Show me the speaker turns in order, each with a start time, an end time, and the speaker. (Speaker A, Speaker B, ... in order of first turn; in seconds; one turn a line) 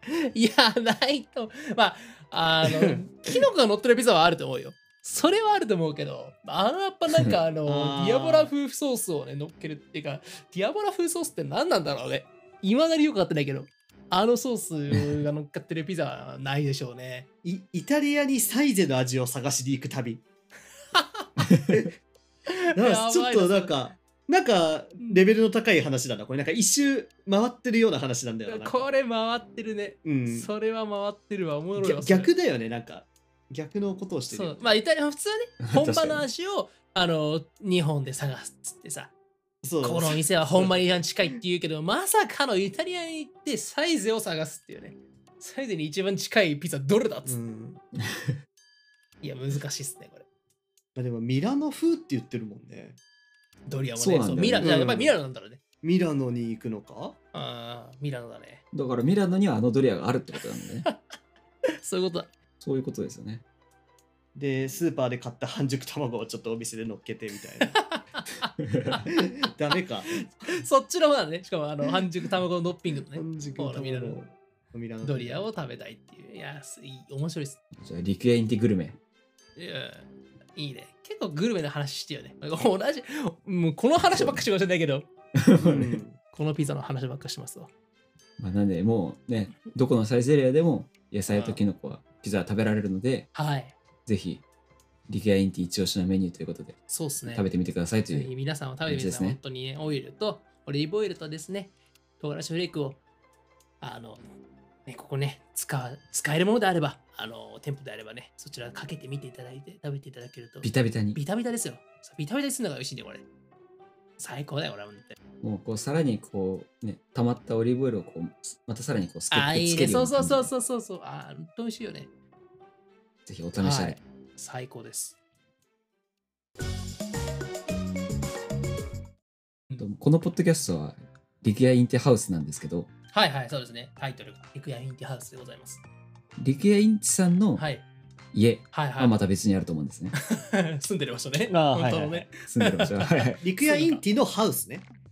Speaker A: 0.2-17.3
Speaker B: 2.6-3.0
Speaker B: 7.7-8.5
Speaker B: 17.4-20.2
Speaker A: 20.9-21.3
Speaker C: 21.4-21.9
Speaker B: 21.7-22.0
Speaker A: 22.5-23.8
Speaker B: 22.8-28.9
Speaker A: 28.5-32.3
Speaker B: 30.0-30.5
Speaker B: 31.8-34.7
Speaker A: 34.3-39.1
Speaker C: 35.6-36.3
Speaker B: 39.6-41.0
Speaker A: 39.8-47.4
Speaker B: 47.3-47.8
Speaker A: 49.2-50.3
Speaker B: 51.0-53.0
Speaker A: 53.7-55.6
Speaker C: 54.0-54.8
Speaker B: 54.6-55.2
Speaker B: 55.8-57.2
Speaker A: 57.3-58.6
Speaker C: 58.7-60.9
Speaker A: 61.8-62.3
Speaker C: 62.6-63.4
Speaker B: 64.3-67.8
Speaker A: 67.7-69.0
Speaker C: 68.6-69.1
Speaker B: 69.1-70.3
Speaker A: 70.2-74.2
Speaker B: 73.1-75.5
Speaker A: 75.0-77.6
Speaker C: 77.8-79.0
Speaker A: 79.6-85.1
Speaker C: 84.0-84.4
Speaker C: 85.4-86.0
Speaker B: 85.6-86.2
Speaker A: 86.3-87.7
Speaker C: 88.4-93.3
Speaker A: 91.3-91.6
Speaker A: 93.3-93.8
Speaker C: 94.1-94.4
Speaker C: 95.1-98.3
Speaker A: 96.9-97.5
Speaker A: 98.1-103.0
Speaker C: 98.9-99.4
Speaker A: 103.8-104.3
Speaker A: 104.9-113.2
Speaker C: 110.6-111.2
Speaker A: 114.2-115.2
Speaker C: 115.4-120.5
Speaker A: 119.3-122.1
Speaker C: 123.3-124.0
Speaker A: 123.6-125.2
Speaker C: 129.8-132.9
Speaker A: 133.1-135.8
Speaker C: 136.4-137.6
Speaker A: 137.6-137.8
Speaker C: 138.3-140.2
Speaker A: 138.7-139.2
Speaker A: 140.1-144.0
Speaker B: 141.5-142.3
Speaker C: 142.5-143.4
Speaker B: 143.4-144.9